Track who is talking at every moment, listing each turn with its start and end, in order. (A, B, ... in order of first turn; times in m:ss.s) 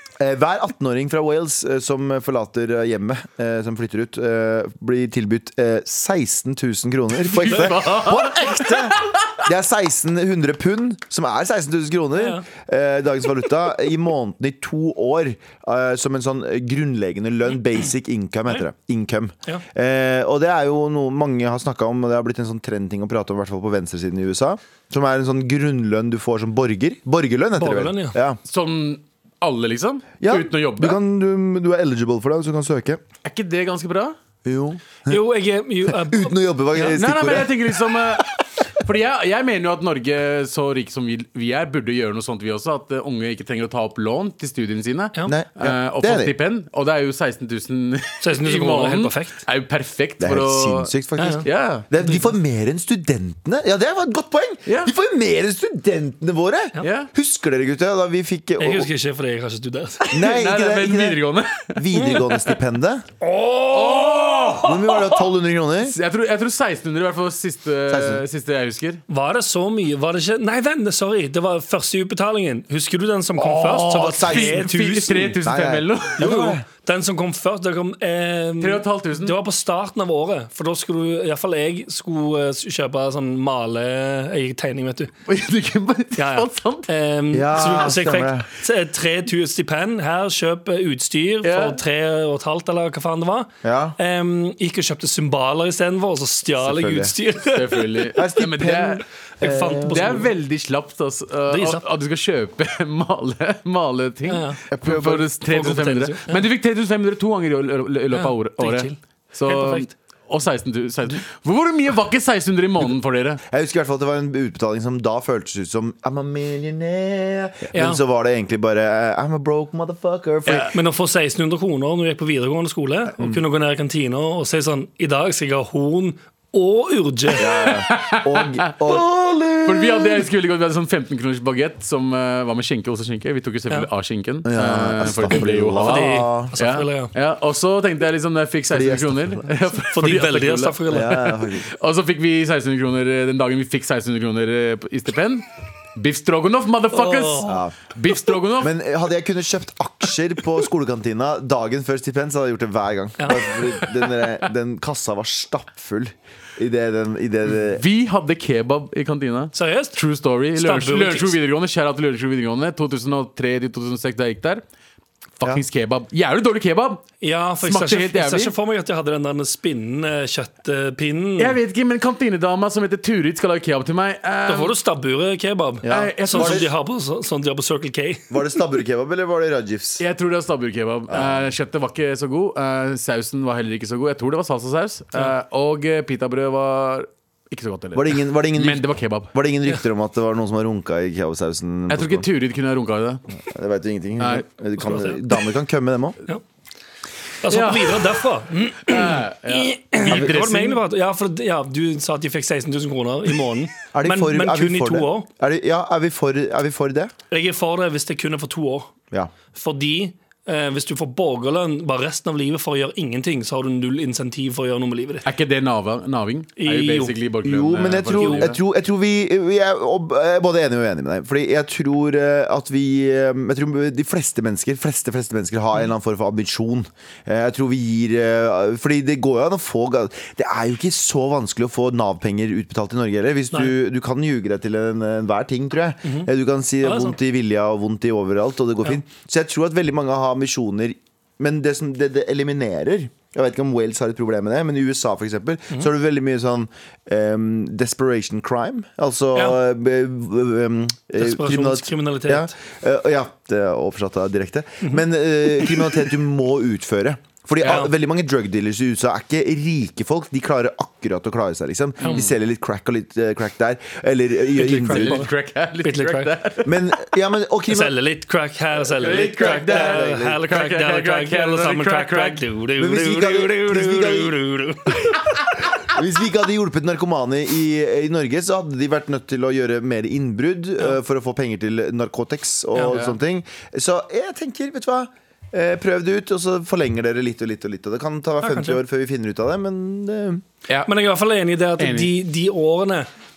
0:00.2-0:28.4 A
0:07.2-0:09.4 B
0:12.2-0:12.4 C
0:27.6-0:28.2 C
0:28.5-0:31.0 B
0:30.2-0:33.0 A
0:33.2-0:34.2 B
0:34.4-0:35.2 A
0:35.1-0:37.0 C
0:35.9-0:38.0 A
0:36.9-0:50.9 B
0:45.3-0:46.3 A
0:48.2-0:49.4 C
0:50.2-0:58.9 A
0:51.2-0:51.4 C
0:51.4-0:51.9 B
0:54.7-0:54.9 B
0:56.8-0:57.1 B
0:58.6-1:00.1 C
1:00.0-1:02.5 B
1:00.1-1:01.2 A
1:01.7-1:03.1 A
1:03.2-1:05.1 C
1:03.7-1:04.8 B
1:04.6-1:06.0 A
1:05.8-1:09.0 B
1:07.9-1:08.2 A
1:09.1-1:15.4 C
1:13.4-1:16.6 A
1:13.6-1:16.4 B
1:16.2-1:25.1 C
1:18.6-1:19.4 B
1:25.3-1:26.9 B
1:26.2-1:38.2 C
1:27.3-1:28.5 A
1:31.4-1:31.8 B
1:33.6-1:34.0 A
1:36.6-1:37.1 A
1:37.5-1:39.0 B
1:38.1-1:40.3 A
1:39.4-1:40.3 C
1:39.9-1:53.4 B
1:41.5-1:41.8 C
1:44.3-1:44.6 C
1:44.7-1:45.3 A
1:45.5-1:46.4 C
1:48.1-1:49.9 C
1:53.5-2:00.7 A
1:57.7-1:58.0 C
2:00.5-2:00.7 B
2:00.7-2:07.7 C
2:07.4-2:10.3 A
2:07.8-2:09.0 B
2:09.6-2:25.4 B
2:14.4-2:16.5 A
2:15.8-2:17.1 C
2:18.7-2:19.4 A
2:19.9-2:21.2 C
2:20.9-2:21.7 A
2:26.0-2:28.8 B
2:26.9-2:27.6 C
2:27.4-2:27.9 A
2:28.5-2:37.8 A
2:33.2-2:33.5 C
2:37.7-2:44.6 B
2:39.6-2:40.0 C
2:40.6-2:41.4 C
2:45.4-2:47.0 B
2:47.2-2:51.6 C
2:47.6-2:48.5 B
2:51.4-2:54.8 B
2:54.5-2:58.6 C
2:55.8-2:56.7 A
2:55.9-2:56.7 B
2:58.3-3:00.0 A
3:00.0-3:09.3 B
3:01.1-3:01.5 A
3:08.0-3:12.3 A
3:11.9-3:13.2 B
3:13.4-3:16.2 A
3:14.2-3:14.5 B
3:14.8-3:15.2 C
3:17.4-3:25.3 C
3:17.5-3:18.2 B
3:18.8-3:20.8 B
3:20.1-3:20.6 A
3:23.9-3:27.1 A
3:27.3-3:28.9 C
3:29.5-3:35.3 C
3:35.2-3:38.6 B
3:36.6-3:37.2 C
3:37.4-4:25.2 A
3:38.2-3:38.5 C
3:56.0-3:56.3 C
3:56.8-3:57.2 C
4:09.3-4:09.6 C
4:11.2-4:12.5 C
4:17.6-4:17.9 C
4:22.0-4:22.3 B
4:24.6-4:25.3 C
4:24.6-4:26.8 B
4:25.8-4:26.4 C
4:26.6-4:28.0 A
4:27.7-4:35.2 C
4:28.9-4:32.4 B
4:29.0-4:30.4 A
4:32.8-4:34.4 A
4:35.8-4:50.4 A
4:42.9-4:43.2 B
4:48.4-4:48.8 C
4:50.9-4:53.1 C
4:51.8-4:52.2 B